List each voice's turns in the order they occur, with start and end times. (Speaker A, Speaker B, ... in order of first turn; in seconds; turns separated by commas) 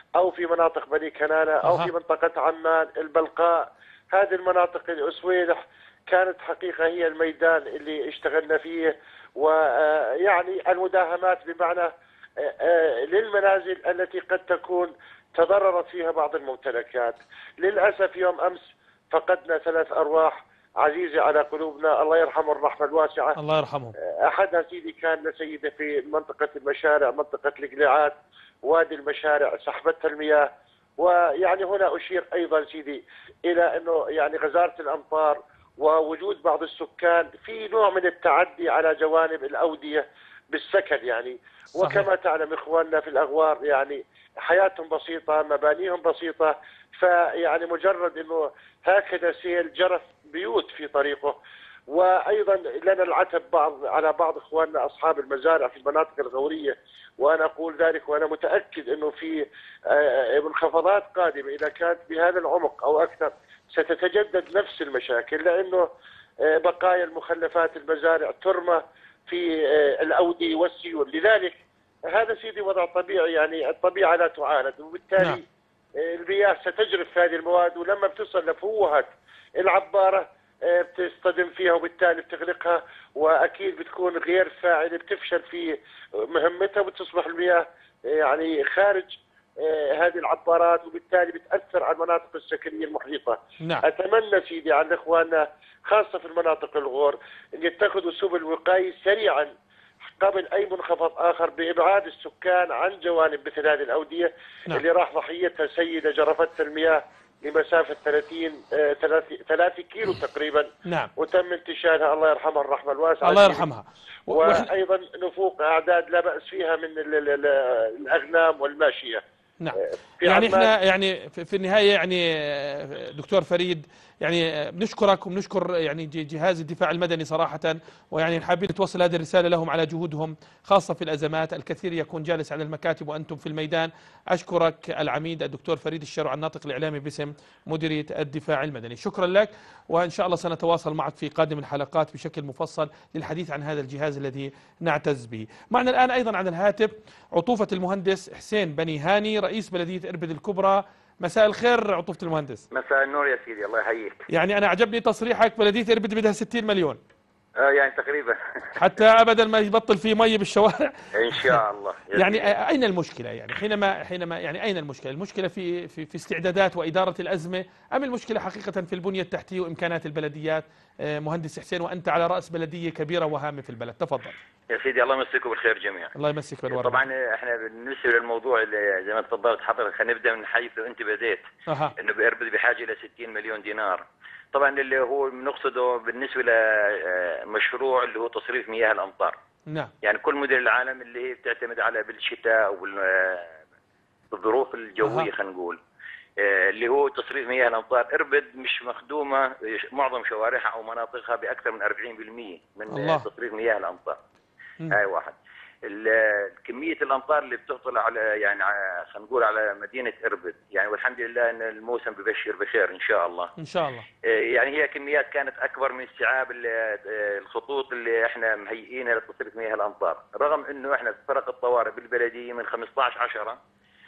Speaker A: 0.2-11.9, Speaker B: 1.6-1.9, Speaker A: 12.4-23.4, Speaker B: 23.4-23.9, Speaker A: 24.0-30.5, Speaker A: 31.0-51.4, Speaker B: 41.8-42.1, Speaker A: 51.9-65.9, Speaker A: 66.4-75.4, Speaker A: 76.0-85.8, Speaker A: 86.3-99.5, Speaker A: 100.2-113.7, Speaker B: 110.8-111.1, Speaker B: 113.2-114.7, Speaker A: 114.3-119.2, Speaker B: 119.6-152.6, Speaker A: 119.7-120.7, Speaker C: 152.7-154.2, Speaker B: 154.3-157.0, Speaker C: 157.6-158.4, Speaker B: 158.8-161.6, Speaker C: 161.2-162.5, Speaker B: 162.2-174.4, Speaker C: 174.7-176.1, Speaker B: 176.2-177.1, Speaker C: 176.7-181.4, Speaker B: 181.7-181.9, Speaker C: 182.0-184.0, Speaker C: 184.5-189.3, Speaker C: 190.0-193.4, Speaker C: 194.3-195.8, Speaker B: 195.0-195.3, Speaker C: 196.4-204.2, Speaker B: 202.9-203.3, Speaker C: 204.9-205.3, Speaker C: 205.9-213.5, Speaker B: 213.6-214.1, Speaker C: 214.5-223.6